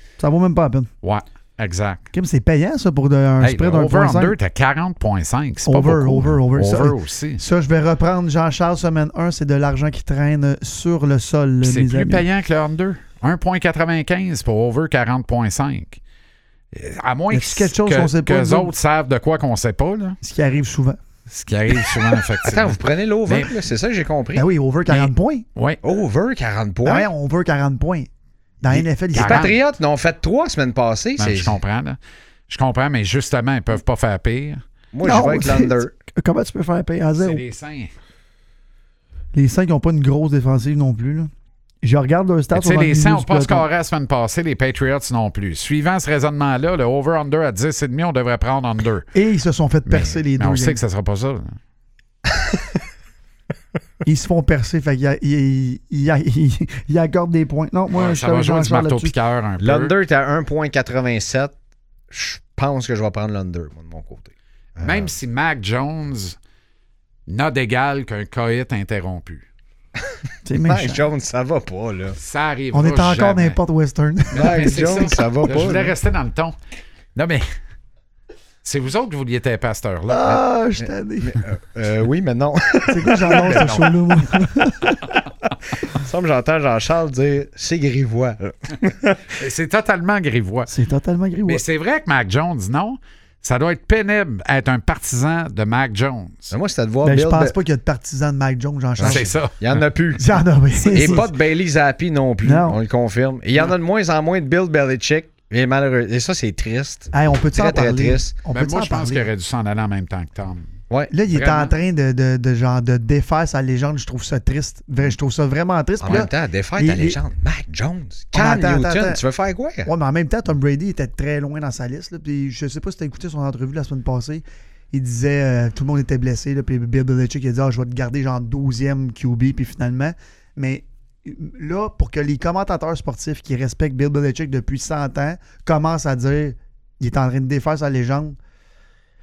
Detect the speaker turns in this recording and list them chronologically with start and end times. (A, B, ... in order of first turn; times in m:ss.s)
0:00.2-0:00.9 A
0:01.0-0:02.1 B
0:02.1-0:04.4 A
0:03.4-0:07.4 B
0:05.6-0:12.2 A
0:11.6-0:16.0 B
0:16.7-0:20.2 B
0:17.3-0:18.7 A
0:20.2-0:21.0 A
0:21.3-0:23.5 B
0:22.4-0:24.5 C
0:24.4-0:25.5 A
0:24.9-0:25.8 B
0:25.8-0:27.1 C
0:26.8-0:28.1 A
0:28.6-0:29.5 A
0:28.7-0:31.6 C
0:29.2-0:29.5 B
0:31.2-0:32.0 B
0:32.5-0:34.6 B
0:34.9-0:35.9 C
0:35.0-0:37.4 A
0:37.2-0:37.9 B
0:39.3-0:41.3 A
0:41.8-0:43.6 A
0:42.5-0:49.1 B
0:49.1-0:50.8 A
0:49.9-0:51.6 B
0:52.3-0:52.6 C
0:54.0-0:59.1 A
0:57.9-0:59.9 B
0:59.6-1:01.6 C
1:02.1-1:05.1 C
1:04.8-1:06.4 B
1:07.3-1:09.4 B
1:10.0-1:12.2 C
1:10.4-1:11.0 A
1:12.2-1:13.6 B
1:12.7-1:14.7 A
1:14.3-1:16.6 B
1:14.3-1:15.9 C
1:17.2-1:17.5 B
1:18.6-1:20.4 B
1:20.1-1:21.4 A
1:20.8-1:24.1 C
1:22.9-1:25.0 A
1:25.1-1:29.4 C
1:29.4-1:30.7 B
1:30.7-1:31.6 A
1:31.4-1:36.5 B
1:36.5-1:37.6 C
1:37.0-1:39.3 A
1:39.0-1:48.3 C
1:39.0-1:39.8 B
1:40.2-1:41.3 A
1:42.4-1:42.8 A
1:47.1-1:49.3 A
1:48.5-1:50.7 B
1:51.1-1:57.2 A
1:51.3-1:51.7 B
1:56.0-1:59.9 C
1:58.3-1:59.2 A
1:59.8-2:18.4 A